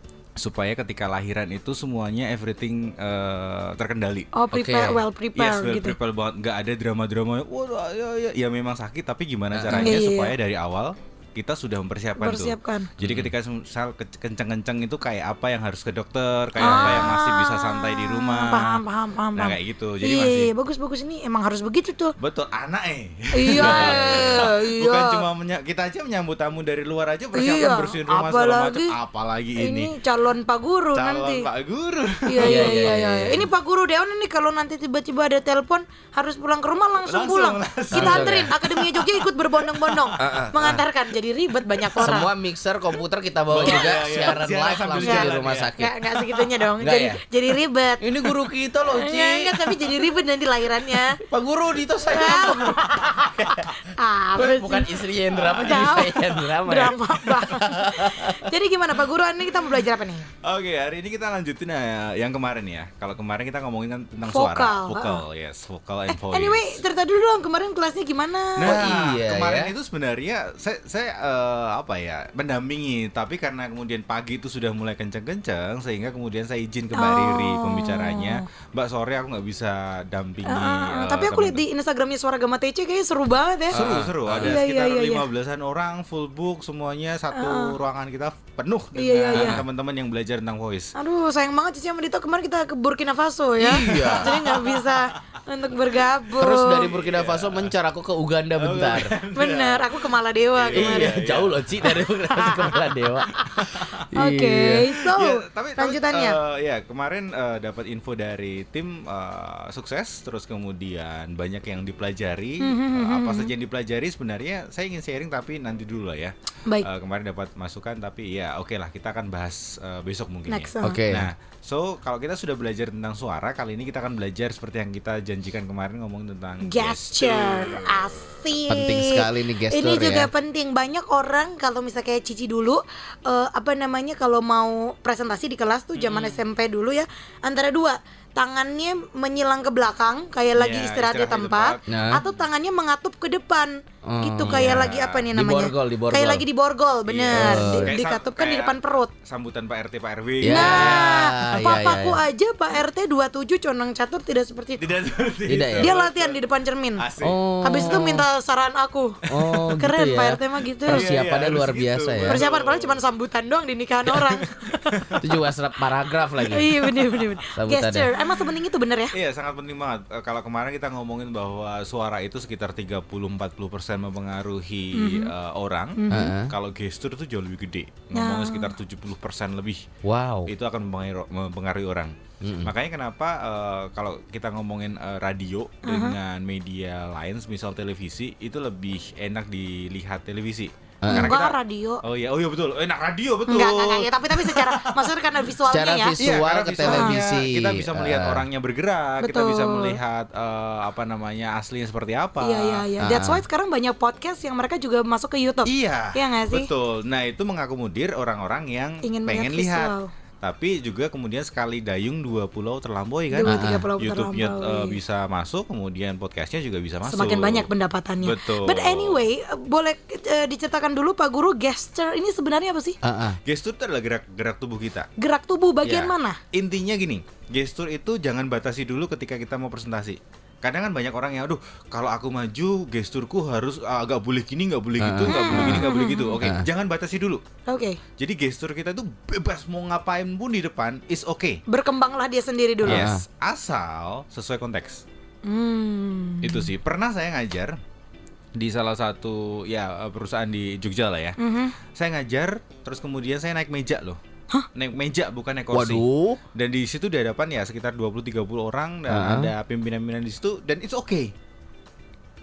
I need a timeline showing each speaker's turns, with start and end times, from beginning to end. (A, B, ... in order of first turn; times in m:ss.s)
0:00.4-0:04.3 A
0:04.3-0:05.9 B
0:04.5-0:05.0 C
0:05.3-0:18.8 A
0:09.5-0:10.0 C
0:09.7-0:10.3 B
0:12.2-0:12.9 B
0:13.0-0:13.3 C
0:16.6-0:22.1 B
0:16.6-0:17.2 C
0:19.4-0:20.5 A
0:22.2-0:29.9 A
0:23.3-0:25.2 B
0:23.5-0:24.4 C
0:27.3-0:28.9 B
0:29.6-0:31.5 B
0:31.0-0:32.8 A
0:32.3-0:42.3 B
0:32.4-0:33.5 C
0:37.0-0:40.4 A
0:37.9-0:38.5 C
0:40.2-0:40.8 C
0:41.8-0:42.2 A
0:42.0-0:45.9 C
0:43.5-0:45.7 A
0:43.6-0:44.4 B
0:45.0-0:48.1 B
0:46.8-0:47.2 C
0:48.0-0:49.8 C
0:48.9-0:51.2 B
0:51.2-0:53.8 C
0:52.1-0:52.8 B
0:53.4-0:53.7 A
0:54.0-0:55.0 B
0:54.3-0:58.4 C
0:55.3-0:56.2 A
0:55.6-1:00.3 B
1:00.4-1:06.8 A
1:04.3-1:05.2 B
1:06.1-1:08.8 B
1:08.6-1:21.6 A
1:08.6-1:09.7 C
1:16.9-1:18.4 B
1:20.4-1:23.8 B
1:23.7-1:30.9 A
1:23.7-1:24.6 C
1:24.4-1:25.2 B
1:27.3-1:27.7 B
1:28.9-1:29.6 B
1:29.3-1:29.6 C
1:30.9-1:36.9 B
1:33.6-1:34.3 C
1:33.8-1:35.2 A
1:36.4-1:39.1 C
1:36.8-1:37.7 A
1:38.6-1:40.0 A
1:39.4-1:41.2 B
1:40.6-1:42.1 A
1:40.7-1:44.9 C
1:42.3-1:42.7 B
1:43.3-1:43.6 B
1:43.5-1:44.0 A
1:44.2-1:46.4 B
1:45.0-2:08.3 A
1:52.6-1:53.5 B
2:00.5-2:01.0 B
2:00.8-2:01.3 C
2:06.6-2:29.1 B
2:08.7-2:10.3 C
2:16.0-2:16.4 A
2:20.6-2:22.2 A
2:21.9-2:22.2 C
2:24.0-2:26.4 C
2:24.5-2:25.2 A
2:27.1-2:31.2 A
2:27.3-2:27.9 C
2:30.4-2:32.2 C
2:30.5-2:34.9 B
2:34.8-2:36.4 A
2:35.5-2:35.9 C
2:35.8-2:37.0 B
2:37.0-2:37.4 A
2:37.2-2:38.2 C
2:37.6-2:39.2 B
2:39.3-2:42.4 C
2:39.8-2:41.0 B
2:40.9-2:43.0 A
2:42.3-2:45.1 B
2:44.1-2:45.4 A
2:45.2-2:46.7 C
2:46.4-2:49.1 B
2:46.7-2:47.3 A
2:47.6-2:48.1 C
2:49.1-2:59.8 A
2:54.9-2:55.3 B
2:56.0-2:56.3 B
2:56.1-2:56.5 C
2:58.1-2:58.7 B
3:00.0-3:00.5 C
3:00.4-3:15.2 A
3:02.4-3:02.7 C
3:05.8-3:06.2 B
3:11.0-3:11.3 C
3:11.1-3:12.0 B
3:13.5-3:16.2 B
3:15.7-3:18.4 C
3:16.2-3:22.8 A
3:16.9-3:17.2 B
3:19.2-3:20.0 B
3:22.4-3:26.7 B
3:23.0-3:23.4 C
3:25.6-3:37.7 A
3:29.0-3:30.1 B
3:33.3-3:35.0 B
3:33.4-3:33.9 C
3:37.1-3:43.0 B
3:38.2-3:39.2 A
3:43.0-3:43.4 C
3:43.4-3:45.1 A
3:45.2-3:46.4 B
3:45.8-3:57.4 A
3:55.0-3:56.7 C
3:55.3-3:56.4 B
3:57.6-3:58.0 B
3:58.2-4:01.6 A
4:01.7-4:03.1 B
4:02.8-4:03.2 C
4:02.8-4:05.0 A
4:05.4-4:06.7 B
4:06.4-4:07.8 A
4:08.5-4:11.4 A
4:11.4-4:11.7 B
4:11.9-4:14.2 A
4:14.7-4:21.3 A
4:15.7-4:16.4 C
4:19.1-4:19.5 C